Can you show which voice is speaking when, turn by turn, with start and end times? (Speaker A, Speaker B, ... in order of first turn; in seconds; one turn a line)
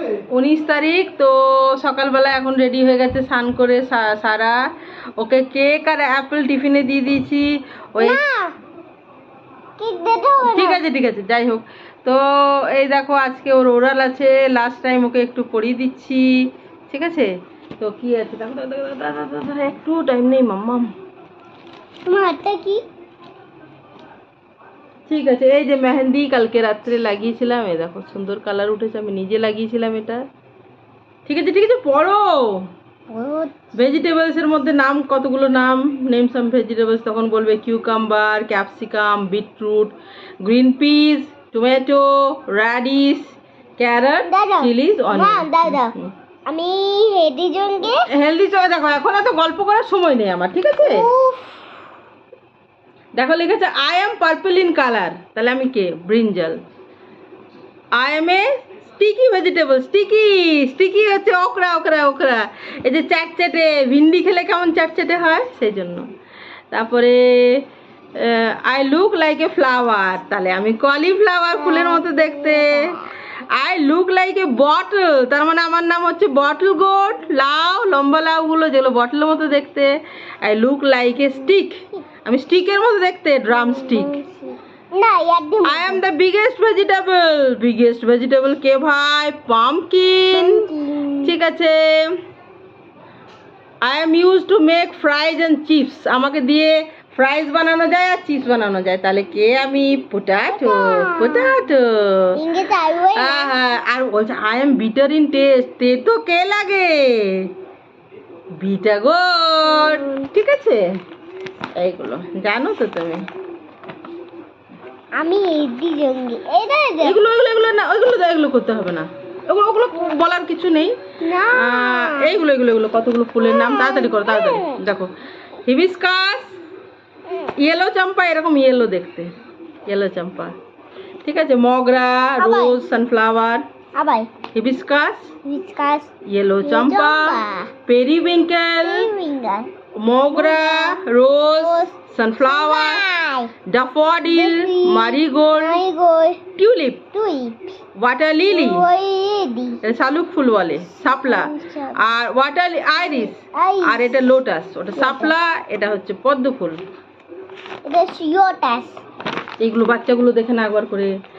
Speaker A: 0.3-4.6
Speaker A: 5.2-8.2
Speaker B: 8.0-8.5
Speaker B: 9.8-10.8
Speaker A: 10.4-16.3
Speaker A: 16.9-20.9
Speaker B: 22.1-22.8
Speaker A: 25.1-30.2
Speaker A: 31.3-32.6
Speaker B: 33.1-33.5
Speaker A: 33.8-46.1
Speaker B: 44.2-45.9
Speaker B: 46.5-48.0
Speaker A: 47.9-51.1
Speaker B: 50.8-51.6
Speaker A: 53.1-56.6
Speaker A: 58.0-66.0
Speaker A: 66.7-67.7
Speaker A: 68.2-73.0
Speaker B: 71.6-73.1
Speaker A: 73.5-79.9
Speaker A: 80.4-84.2
Speaker B: 83.5-86.0
Speaker A: 85.7-90.7
Speaker B: 90.3-91.3
Speaker A: 91.2-92.0
Speaker A: 93.8-102.3
Speaker B: 100.5-101.5
Speaker B: 102.3-103.5
Speaker A: 103.2-107.5
Speaker A: 108.6-110.8
Speaker B: 109.7-110.3
Speaker A: 111.8-113.2
Speaker B: 115.2-117.2
Speaker A: 117.0-121.0
Speaker B: 121.2-122.4
Speaker A: 121.5-125.1
Speaker B: 123.4-124.8
Speaker A: 125.7-126.5
Speaker A: 127.6-129.3
Speaker A: 129.9-130.6
Speaker A: 131.2-133.6
Speaker B: 132.4-132.8
Speaker B: 133.9-134.3
Speaker A: 134.5-135.3
Speaker B: 135.4-136.1
Speaker A: 136.3-139.1
Speaker B: 136.6-137.7
Speaker B: 138.8-139.7
Speaker A: 140.0-143.1
Speaker B: 140.3-141.0
Speaker B: 141.6-143.5
Speaker A: 143.7-145.8
Speaker B: 144.3-146.4
Speaker A: 146.6-147.0
Speaker B: 147.1-147.8
Speaker A: 148.0-148.8
Speaker B: 148.5-149.8
Speaker A: 149.8-156.8
Speaker B: 151.2-152.0
Speaker B: 153.0-154.2
Speaker B: 155.0-155.3
Speaker B: 157.8-159.0
Speaker A: 159.6-161.2